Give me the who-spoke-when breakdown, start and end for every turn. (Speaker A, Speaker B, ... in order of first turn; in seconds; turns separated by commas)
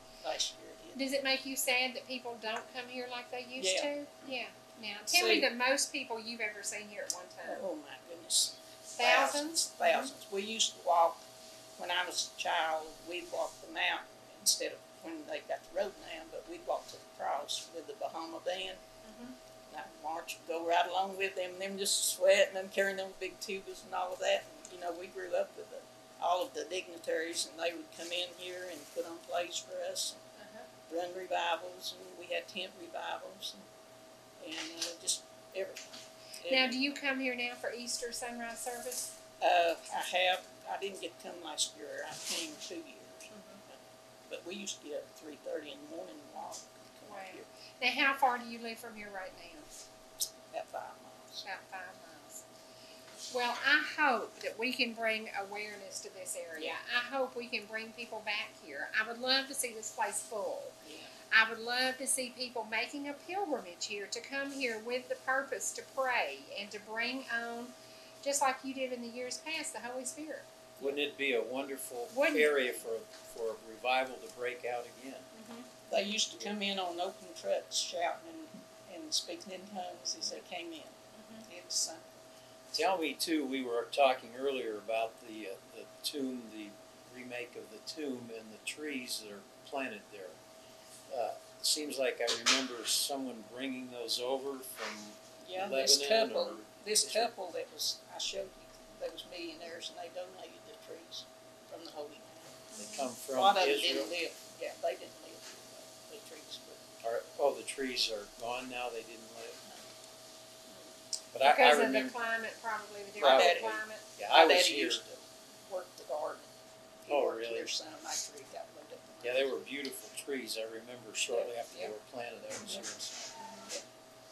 Speaker A: 0.2-1.0, Speaker B: 0.9-7.6, Speaker A: 3.6-3.9, Speaker A: 5.1-5.5, Speaker A: 7.4-11.2, Speaker B: 8.9-10.1, Speaker A: 11.8-18.8, Speaker B: 19.0-19.3, Speaker A: 19.7-30.2, Speaker B: 30.4-30.6, Speaker A: 30.9-33.6, Speaker A: 34.4-35.9, Speaker A: 36.4-36.8, Speaker B: 36.5-39.1, Speaker A: 39.4-47.5, Speaker B: 43.3-43.6, Speaker B: 47.1-49.7, Speaker A: 50.5-51.4, Speaker B: 51.4-52.4, Speaker B: 53.3-60.8, Speaker A: 60.8-61.1, Speaker B: 61.3-70.5, Speaker C: 70.8-75.3, Speaker B: 72.1-72.8, Speaker B: 75.3-76.1, Speaker A: 75.9-82.1, Speaker B: 81.2-81.4, Speaker C: 82.7-90.4, Speaker C: 91.1-97.3, Speaker A: 95.4-102.7, Speaker B: 102.7-103.0, Speaker C: 102.8-104.1, Speaker A: 103.3-106.9, Speaker C: 107.0-109.6, Speaker C: 111.3-112.1, Speaker B: 111.4-114.0, Speaker A: 113.2-119.5, Speaker C: 113.2-115.0, Speaker C: 117.1-117.7, Speaker C: 119.2-123.3, Speaker A: 121.3-121.9, Speaker B: 123.4-123.7